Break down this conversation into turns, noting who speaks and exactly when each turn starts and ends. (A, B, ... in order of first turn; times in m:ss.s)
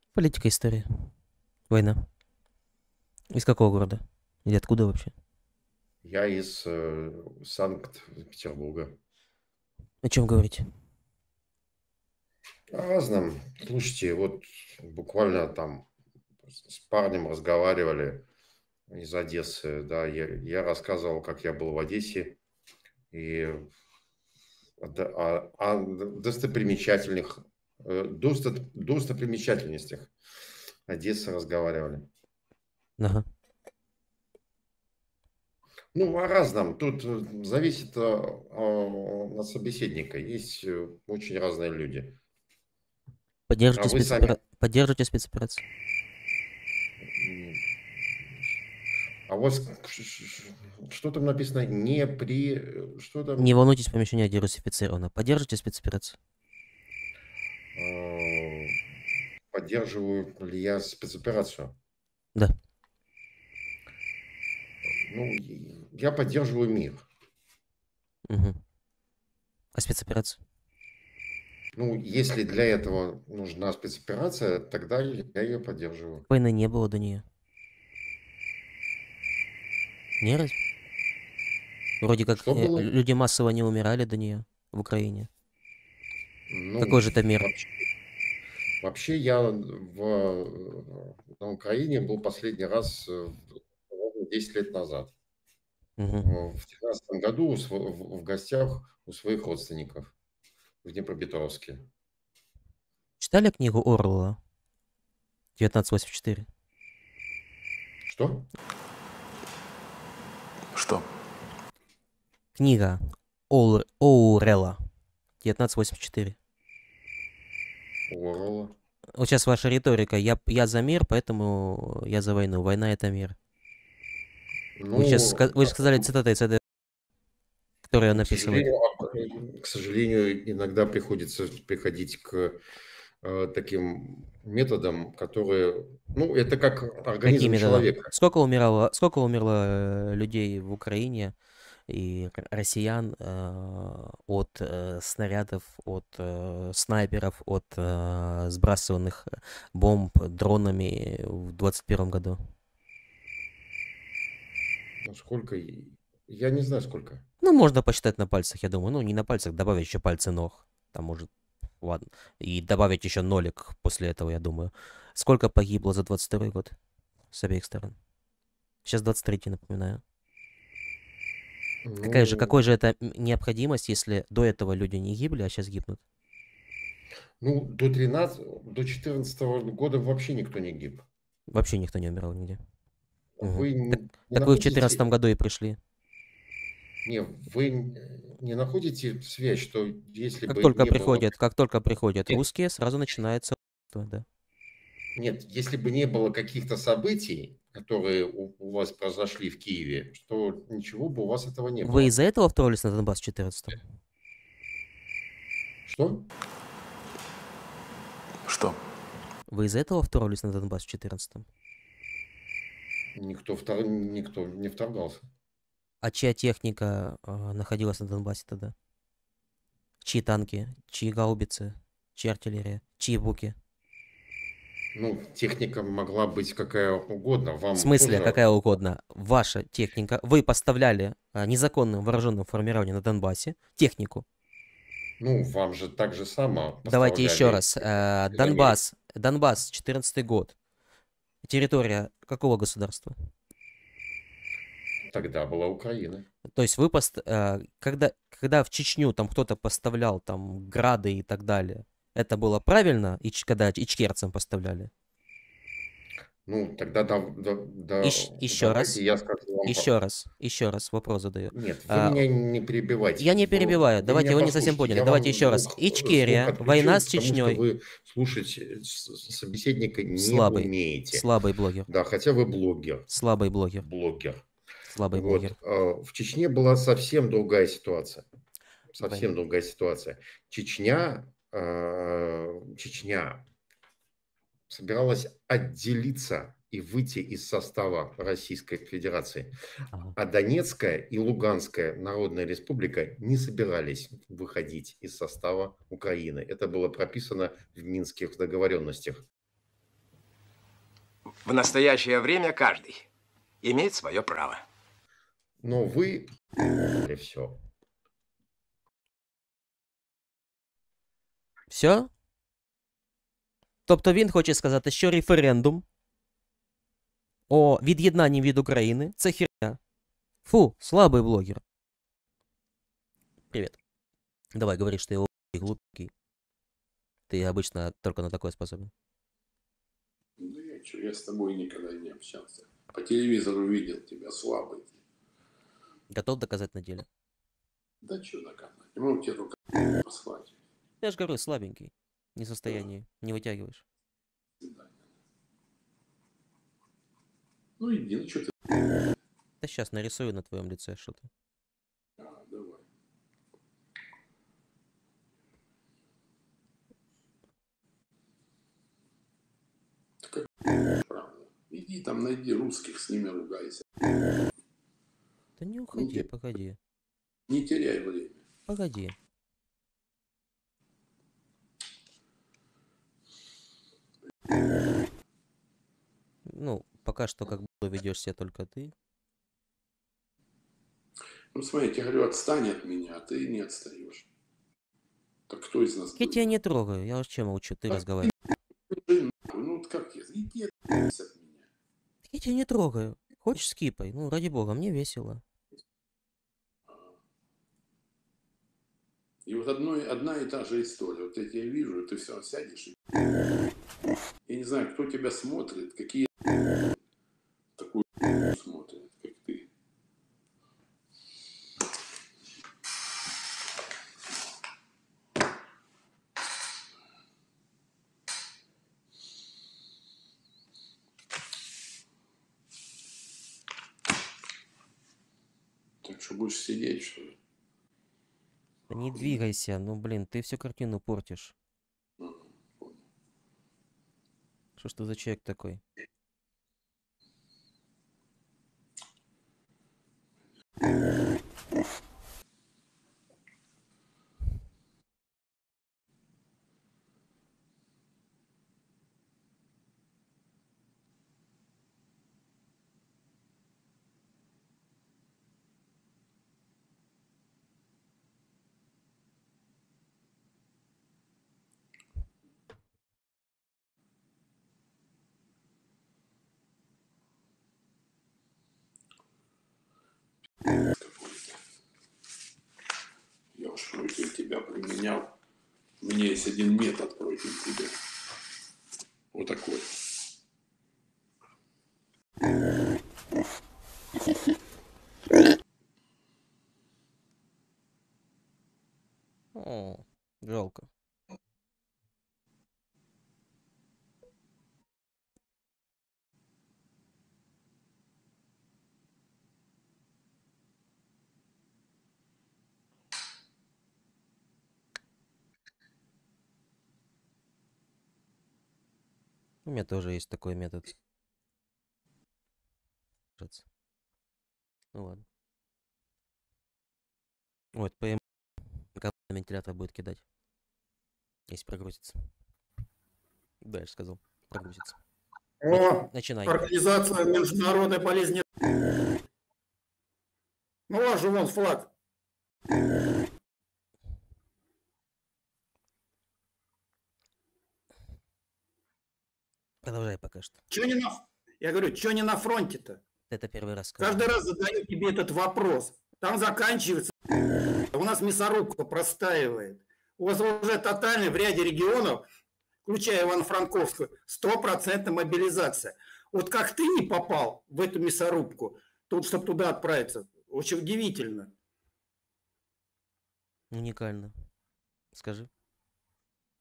0:00.1-0:01.1 A
0:01.7-0:02.0 A
0:03.3-0:05.1 A
0:06.0-0:08.9 B
0:10.0-0:10.6 A
0:12.7-0:15.9 B
0:16.4-0:18.2 B
0:18.9-0:22.4 B
0:23.1-0:23.6 B
0:24.8-0:30.1 B
0:30.9-0:32.0 B
0:33.0-0:33.2 A
0:35.9-0:42.1 B
0:43.5-0:45.6 A
0:43.8-0:44.4 B
0:47.0-0:47.6 B
0:49.3-0:53.5 B
0:53.4-0:56.2 A
0:57.7-0:58.8 B
0:59.5-1:01.7 B
1:04.9-1:07.0 B
1:08.3-1:08.6 A
1:09.7-1:10.4 A
1:11.7-1:16.2 B
1:16.3-1:17.2 A
1:20.2-1:20.5 A
1:22.0-1:25.3 A
1:22.4-1:22.9 B
1:26.5-1:27.7 B
1:26.8-1:27.5 A
1:28.8-1:35.1 B
1:36.0-1:36.3 A
1:36.2-1:40.1 B
1:40.8-1:41.8 B
1:43.2-1:44.4 A
1:45.6-1:46.5 A
1:48.0-1:48.5 B
1:50.7-1:51.0 C
1:52.6-1:54.8 A
1:55.4-1:56.4 A
1:58.1-1:58.7 B
1:59.1-2:03.4 A
2:04.8-2:06.1 B
2:04.9-2:06.6 A
2:07.8-2:08.7 A
2:08.1-2:12.6 B
2:13.2-2:18.1 B
2:17.2-2:21.3 A
2:21.9-2:32.4 A
2:35.0-2:37.2 B
2:37.4-2:41.3 A
2:41.8-2:46.7 A
2:47.3-2:47.9 A
2:48.8-2:50.0 A
2:51.8-2:52.6 B
2:52.0-2:56.0 A
2:57.4-3:01.0 B
3:01.5-3:02.6 A
3:03.4-3:05.0 B
3:03.4-3:05.8 A
3:07.0-3:11.3 B
3:10.5-3:14.2 A
3:15.2-3:22.1 B
3:21.8-3:23.8 A
3:25.8-3:26.2 B
3:28.5-3:28.8 C
3:29.5-3:31.4 A
3:33.2-3:35.2 B
3:36.0-3:38.7 A
3:40.0-3:43.6 A
3:44.9-3:48.4 B
3:47.7-3:54.2 A
3:55.2-3:58.8 B
3:56.8-4:00.6 A
4:01.4-4:03.1 A
4:05.1-4:06.2 B
4:06.5-4:14.9 A
4:16.4-4:19.9 B
4:18.0-4:19.0 A
4:19.6-4:22.2 A
4:21.5-4:31.3 B
4:23.2-4:27.6 A
4:30.2-4:31.9 A
4:31.9-4:33.1 B
4:33.1-4:33.8 A
4:33.8-4:34.4 B
4:34.9-4:35.5 A
4:35.1-4:38.2 B
4:38.9-4:43.4 B
4:39.0-4:39.3 A
4:44.7-4:49.5 B
4:50.2-4:59.2 B
5:01.4-5:03.0 D
5:03.6-5:04.6 D
5:05.6-5:06.3 B
5:07.0-5:07.6 B
5:11.7-5:12.1 A
5:13.9-5:15.8 A
5:17.5-5:19.8 A
5:20.4-5:21.6 A
5:23.5-5:23.8 A
5:24.5-5:26.1 A
5:27.3-5:28.9 A
5:30.4-5:35.0 C
5:36.1-5:37.1 A
5:38.0-5:40.6 C
5:41.0-5:43.8 A
5:44.6-5:45.1 C
5:47.8-5:48.7 C
5:49.6-5:51.3 A
5:52.2-5:52.8 C
6:00.2-6:00.5 C
6:01.0-6:03.8 C
6:05.6-6:06.8 A
6:05.9-6:06.2 C
6:07.5-6:08.4 C
6:08.7-6:09.2 A
6:16.5-6:18.9 A
6:21.5-6:24.3 C
6:25.5-6:26.5 C
6:26.2-6:28.3 A
6:28.9-6:31.7 C
6:32.2-6:35.4 A
6:36.9-6:37.1 C
6:39.4-6:43.0 C
6:44.5-6:46.3 C
6:47.8-6:49.7 C
7:06.0-7:07.4 C
7:08.9-7:11.5 A
7:12.2-7:13.0 C
7:14.8-7:15.8 A
7:51.0-7:51.6 C
7:53.5-7:55.3 C
7:56.0-7:57.9 C
7:59.3-7:59.9 C
8:09.5-8:10.9 A
8:29.6-8:30.9 A
8:33.4-8:33.6 A
8:34.9-8:35.2 A
8:37.7-8:38.2 A
8:38.9-8:40.2 A
8:41.5-8:42.2 A
8:43.6-8:45.0 A
8:45.6-8:48.4 E
8:45.7-8:46.6 A
8:50.9-8:51.9 E
8:59.8-9:00.6 A
9:00.7-9:03.0 E
9:03.3-9:04.3 A
9:04.0-9:07.1 E
9:07.9-9:12.2 E
9:12.8-9:21.5 E
9:23.7-9:24.3 A
9:25.1-9:25.5 A